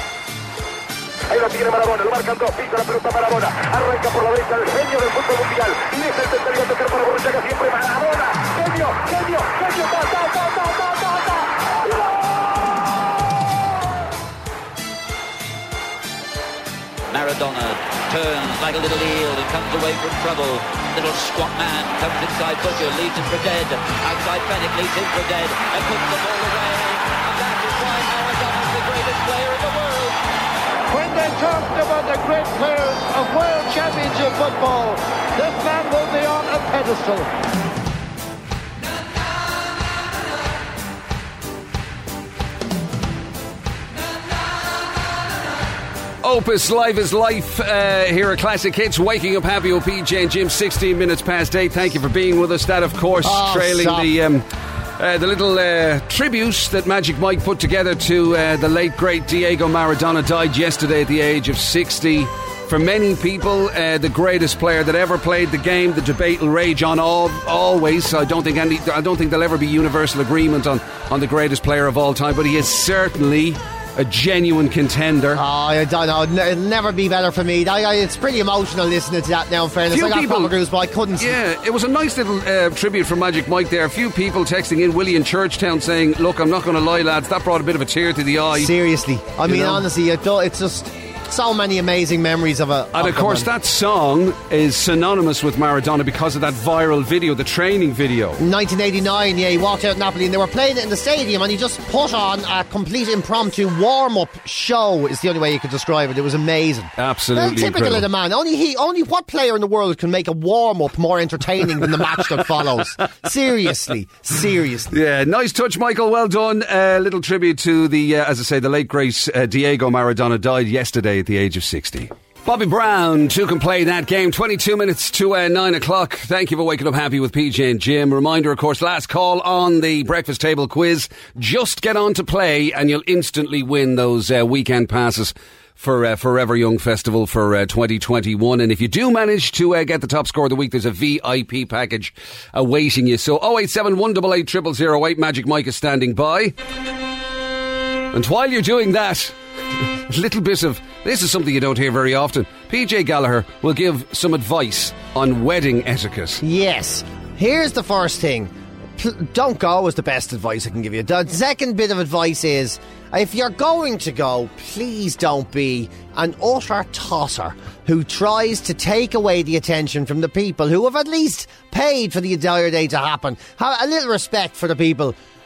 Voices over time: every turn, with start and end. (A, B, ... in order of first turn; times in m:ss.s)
0:01.3-0:12.1 A
0:17.1-0:30.2 B
0:30.9-0:37.3 C
0:46.2-0:54.4 D
0:53.2-0:54.1 E
0:55.0-1:15.4 D
1:15.3-1:21.4 E
1:19.9-1:20.6 D
1:21.2-1:28.7 D
1:28.5-1:33.5 E
1:29.4-1:29.8 D
1:33.0-1:38.4 D
1:38.4-1:54.9 E
1:47.0-1:48.1 D
1:54.9-2:26.6 D
2:28.1-2:29.4 D
2:30.1-2:36.4 D
2:36.4-2:55.2 E